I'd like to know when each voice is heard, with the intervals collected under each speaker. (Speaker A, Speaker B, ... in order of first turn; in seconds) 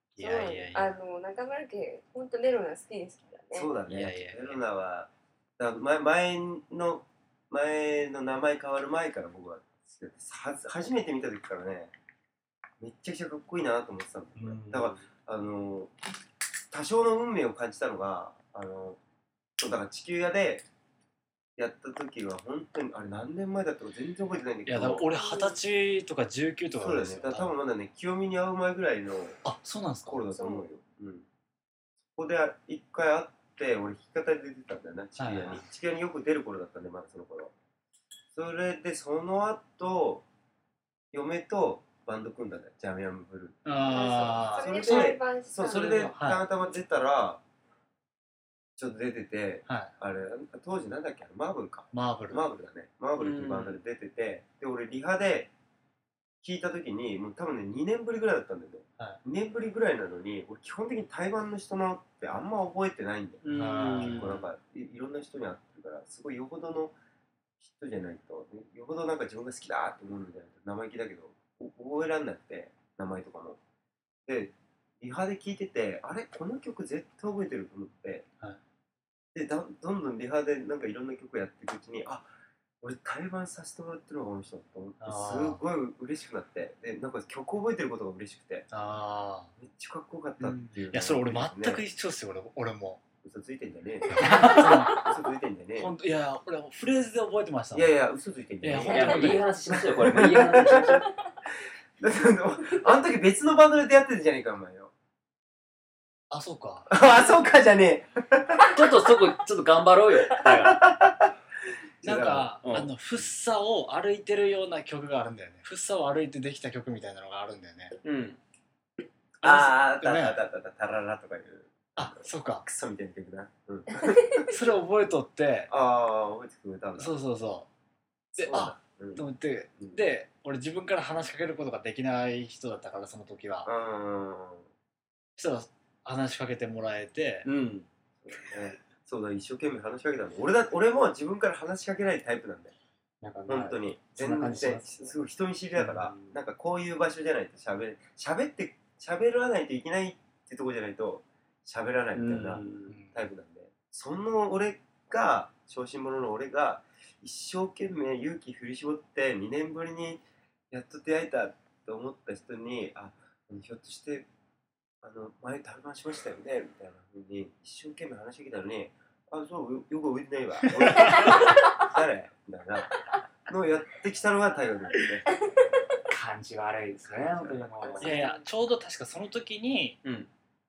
Speaker A: 0.1-0.9, 3.9-4.6, 24.7-27.6, 29.4-30.2, 35.2-35.6, 43.6-46.4, 49.7-49.9, 51.9-52.4, 63.5-64.4, 85.0-85.6, 88.7-89.5, 90.9-93.0, 94.2-95.1, 95.8-98.0, 98.6-99.5, 106.3-106.9, 112.0-117.9, 119.4-120.4, 122.0-122.6, 124.5-125.7, 127.0-127.7, 128.3-133.7, 135.4-137.4, 152.9-153.2, 170.8-171.1, 178.0-180.0
Speaker B: 0.2-3.7, 25.0-25.6, 30.3-30.7, 43.8-46.1
Speaker C: 3.5-11.9, 12.8-15.9, 16.7-19.0, 19.6-20.6, 21.6-25.1, 26.7-29.4, 30.1-31.2, 32.1-37.5, 38.3-40.2, 41.1-47.4, 48.8-55.5, 56.4-66.9, 67.6-73.6, 74.2-78.2, 79.3-82.3, 82.8-88.7, 89.6-91.8, 93.2-95.9, 97.7-101.0, 102.0-104.9, 106.9-108.9, 110.5-111.2, 112.0-112.5, 119.4-124.5, 125.7-127.1, 128.4-129.2, 133.6-134.7, 138.2-142.7, 143.5-164.3, 165.0-172.9, 173.5-175.3, 177.0-178.2
Speaker D: 14.4-15.1, 53.2-53.8, 63.4-64.5, 90.4-90.8, 94.2-95.0, 98.8-101.1, 108.7-110.9, 112.6-112.9, 118.0-118.4, 137.4-137.9, 143.2-145.2, 145.8-146.3, 152.1-153.0, 176.1-178.2, 180.0-180.3